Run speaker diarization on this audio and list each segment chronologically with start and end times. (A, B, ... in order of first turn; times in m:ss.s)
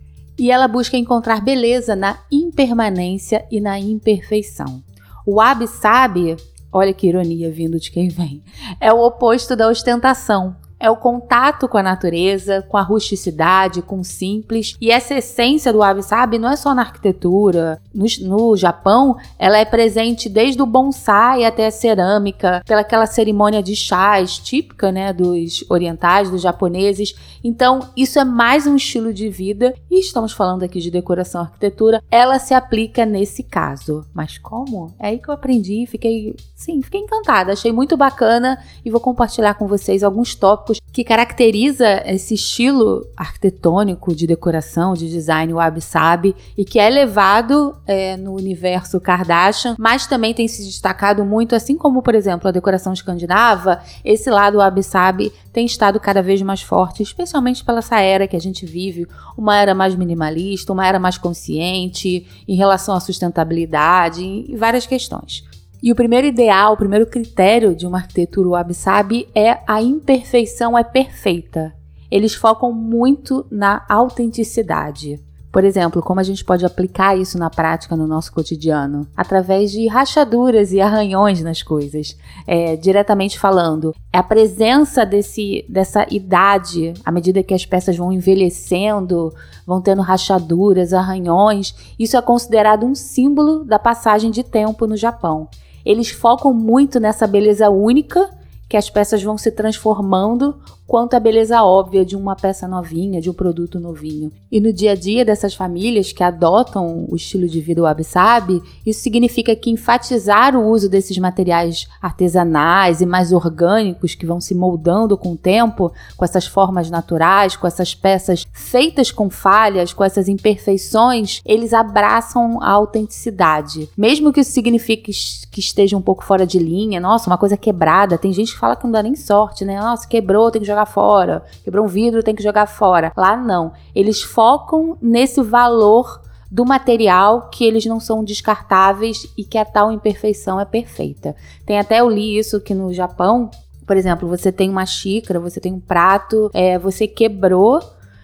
0:00.4-2:27.8 A